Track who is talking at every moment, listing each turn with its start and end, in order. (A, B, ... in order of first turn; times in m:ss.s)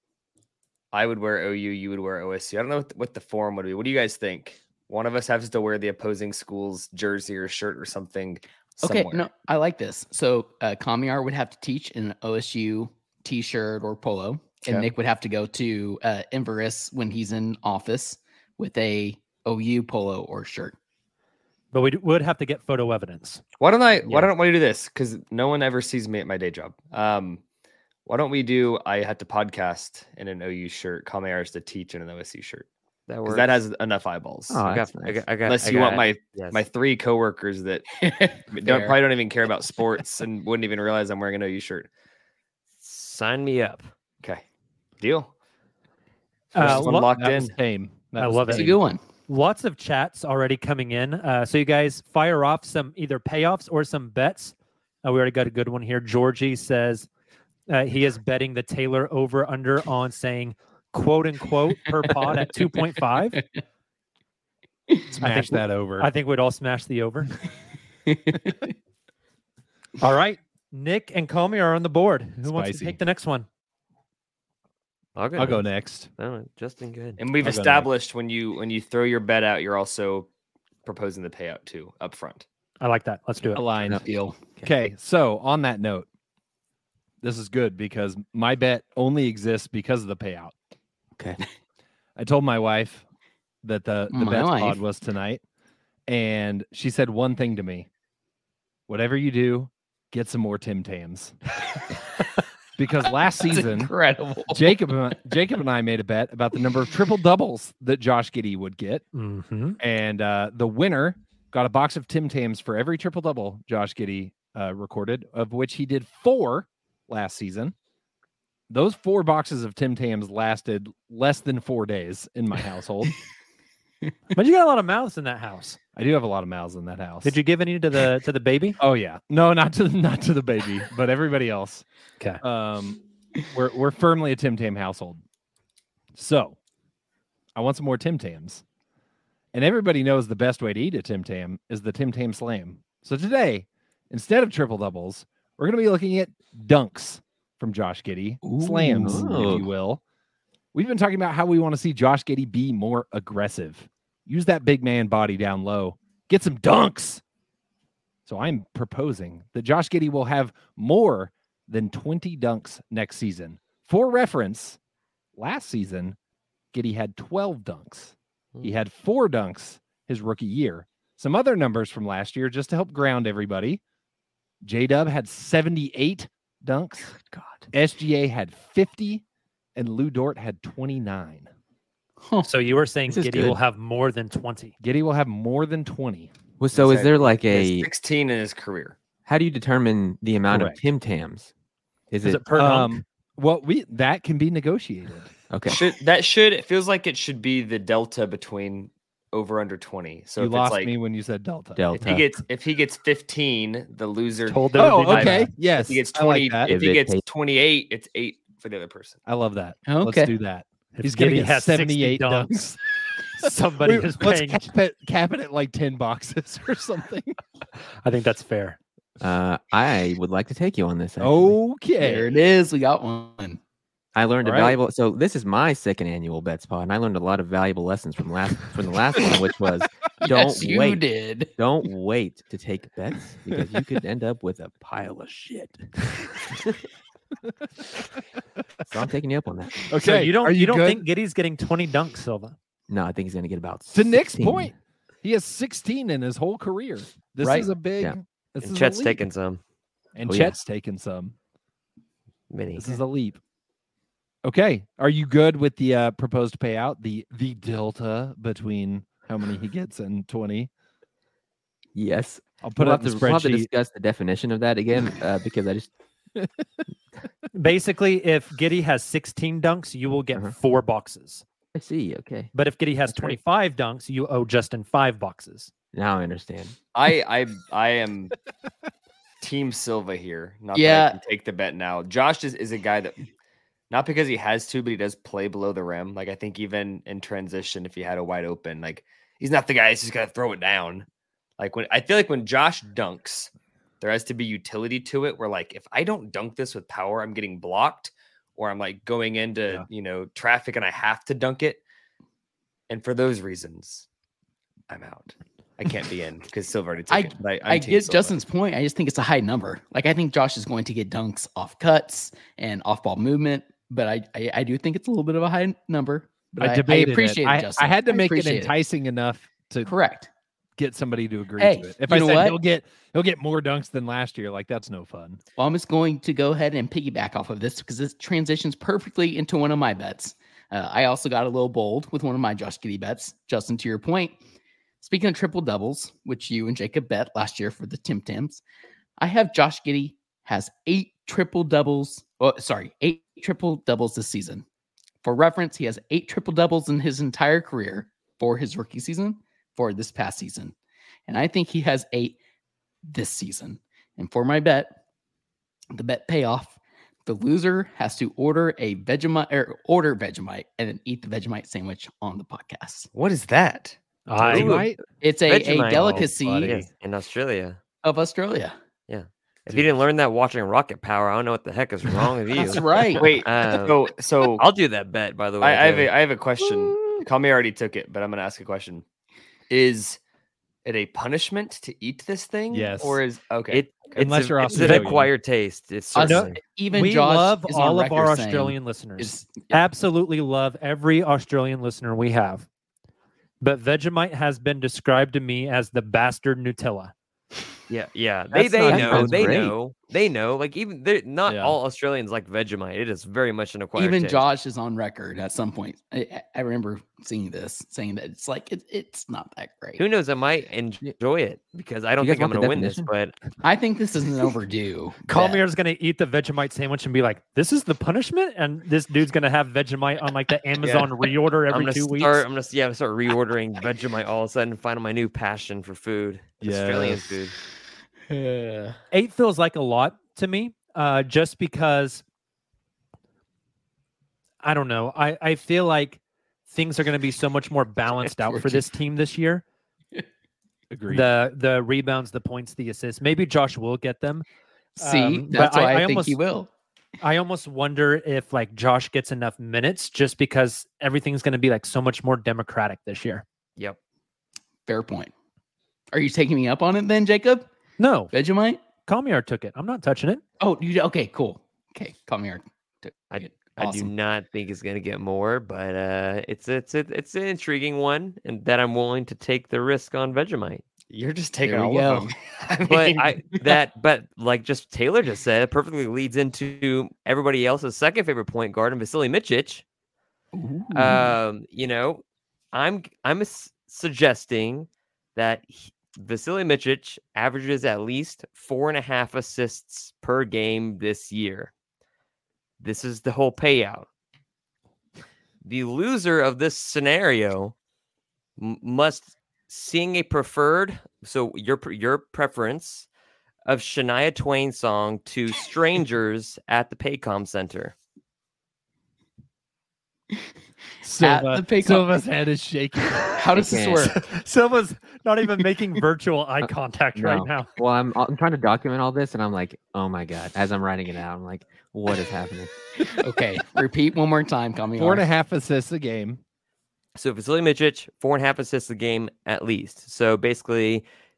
0:00.9-0:09.3 A
0:08.8-0:20.8 B
0:21.7-0:23.4 C
0:23.6-0:27.4 A
0:28.0-0:32.7 A
0:33.1-0:33.5 D
0:33.2-0:34.6 A
0:34.5-0:35.3 E
0:34.6-0:36.6 D
0:35.4-0:37.8 A
0:38.0-0:39.0 B
0:38.5-0:41.9 A
0:42.8-0:43.9 D
0:45.0-0:45.3 A
0:46.5-0:47.1 C
0:46.6-0:47.5 A
0:46.6-0:48.8 F
0:48.2-0:48.7 C
0:48.5-0:49.0 B
0:49.3-0:57.1 C
0:57.7-1:03.4 C
1:05.1-1:06.1 F
1:05.2-1:07.3 C
1:08.1-1:08.7 B
1:10.0-1:13.5 C
1:12.4-1:13.0 F
1:15.2-1:17.2 D
1:15.4-1:16.1 F
1:17.2-1:20.3 A
1:17.4-1:17.9 F
1:20.8-1:22.4 A
1:22.8-1:23.6 C
1:23.5-1:26.0 F
1:24.0-1:24.4 B
1:27.2-1:30.5 F
1:32.2-1:33.0 F
1:33.6-1:35.4 F
1:34.1-1:34.8 B
1:36.1-1:37.9 F
1:38.9-1:41.4 F
1:42.8-1:43.9 F
1:43.4-1:45.2 B
1:44.5-1:49.0 F
1:49.1-1:49.8 C
1:49.8-1:57.7 F
1:58.7-2:03.1 F
2:04.3-2:05.8 C
2:06.0-2:07.4 F
2:07.2-2:08.8 C
2:08.8-2:11.8 F
2:12.4-2:15.2 F
2:16.1-2:16.6 F
2:17.5-2:18.6 F
2:19.5-2:30.0 F
2:28.4-2:29.7 B
2:29.0-2:29.6 E
2:30.7-2:37.2 F
2:38.2-2:44.8 F
2:45.4-2:46.2 F
2:46.7-2:53.8 F
2:54.6-2:57.1 F
2:57.1-2:57.7 E
2:57.7-2:59.2 F
2:59.7-3:01.5 F
3:02.4-3:04.7 C
3:03.1-3:03.6 E
3:04.8-3:06.3 F
3:06.6-3:07.9 E
3:06.7-3:09.0 A
3:09.2-3:11.5 E
3:10.5-3:10.8 F
3:12.1-3:12.5 E
3:12.2-3:13.0 C
3:12.6-3:15.3 F
3:15.5-3:15.8 E
3:15.7-3:20.9 A
3:20.4-3:21.8 F
3:21.8-3:22.3 E
3:21.9-3:29.2 A
3:24.5-3:25.5 C
3:24.8-3:26.7 F
3:26.6-3:27.2 E
3:29.2-3:32.8 F
3:29.9-3:30.3 B
3:31.0-3:32.5 C
3:33.4-3:34.7 C
3:33.4-3:37.4 F
3:38.0-3:38.8 C
3:39.2-3:41.5 E
3:41.2-3:42.3 F
3:42.0-3:43.6 B
3:44.1-3:51.0 E
3:44.4-3:44.8 F
3:50.2-3:51.5 B
3:51.6-3:56.3 E
3:58.9-3:59.9 E
3:59.9-4:01.0 F
4:00.0-4:02.5 C
4:02.9-4:04.7 E
4:03.9-4:09.2 F
4:07.4-4:07.7 B
4:08.6-4:09.6 D
4:10.2-4:11.3 F
4:10.2-4:10.6 E
4:12.5-4:12.9 D
4:12.8-4:13.4 F
4:14.4-4:20.7 F
4:21.9-4:25.9 E
4:22.6-4:23.7 F
4:27.5-4:31.4 C
4:31.7-4:32.5 E
4:32.5-4:35.7 C
4:35.9-4:36.8 E
4:36.9-4:38.3 A
4:39.4-4:43.2 A
4:40.7-4:41.2 B
4:43.9-4:51.0 A
4:51.6-4:53.5 A
4:54.0-5:01.8 A
5:02.9-5:04.0 A
5:04.9-5:08.3 A
5:07.1-5:18.7 B
5:16.6-5:19.9 F
5:19.8-5:20.3 B
5:20.8-5:25.4 F
5:21.6-5:22.6 B
5:25.6-5:34.4 B
5:35.0-5:38.6 B
5:39.2-5:44.6 B
5:45.2-5:50.7 B
5:51.3-5:52.4 B
5:53.1-5:55.0 B
5:55.9-6:03.1 B
6:03.1-6:04.0 A
6:04.3-6:04.8 C
6:04.4-6:05.0 F
6:04.5-6:04.9 D
6:05.2-6:06.8 B
6:05.4-6:07.8 D
6:06.1-6:06.9 F
6:08.0-6:08.7 B
6:09.1-6:16.1 D
6:12.5-6:13.4 B
6:13.1-6:14.6 A
6:15.6-6:19.0 A
6:19.7-6:20.2 A
6:20.8-6:24.4 A
6:22.7-6:23.2 F
6:23.7-6:26.6 D
6:24.2-6:25.3 F
6:24.8-6:25.1 C
6:26.1-6:29.8 B
6:26.2-6:32.7 C
6:33.6-6:37.1 C
6:37.9-6:44.4 D
6:38.5-6:39.8 E
6:41.5-6:41.8 F
6:44.0-6:50.0 B
6:50.0-6:53.3 D
6:52.2-6:53.1 E
6:53.6-6:55.6 B
6:55.3-7:02.4 C
7:01.7-7:07.5 D
7:06.6-7:07.2 F
7:08.3-7:09.0 B
7:09.1-7:12.2 C
7:14.6-7:19.6 C
7:18.4-7:18.8 B
7:20.9-7:21.3 F
7:21.1-7:24.4 C
7:25.0-7:26.7 B
7:25.0-7:26.4 C
7:27.2-7:33.4 C
7:34.9-7:35.3 B
7:36.1-7:37.6 B
7:38.0-7:38.3 C
7:38.3-7:38.8 B
7:39.0-7:40.4 C
7:40.6-7:44.1 B
7:43.3-7:50.8 D
7:51.1-7:53.3 A
7:51.6-7:52.3 B
7:52.9-7:59.8 D
8:00.5-8:01.3 B
8:00.9-8:11.7 D
8:12.8-8:14.1 D
8:15.6-8:17.7 D
8:18.6-8:23.1 D
8:23.7-8:27.9 D
8:31.0-8:33.5 F
8:31.2-8:32.1 B
8:33.2-8:34.2 B
8:33.5-8:34.1 E
8:34.3-8:37.7 C
8:36.6-8:42.7 E
8:43.2-8:45.2 B
8:45.0-8:46.4 F
8:47.2-8:51.0 D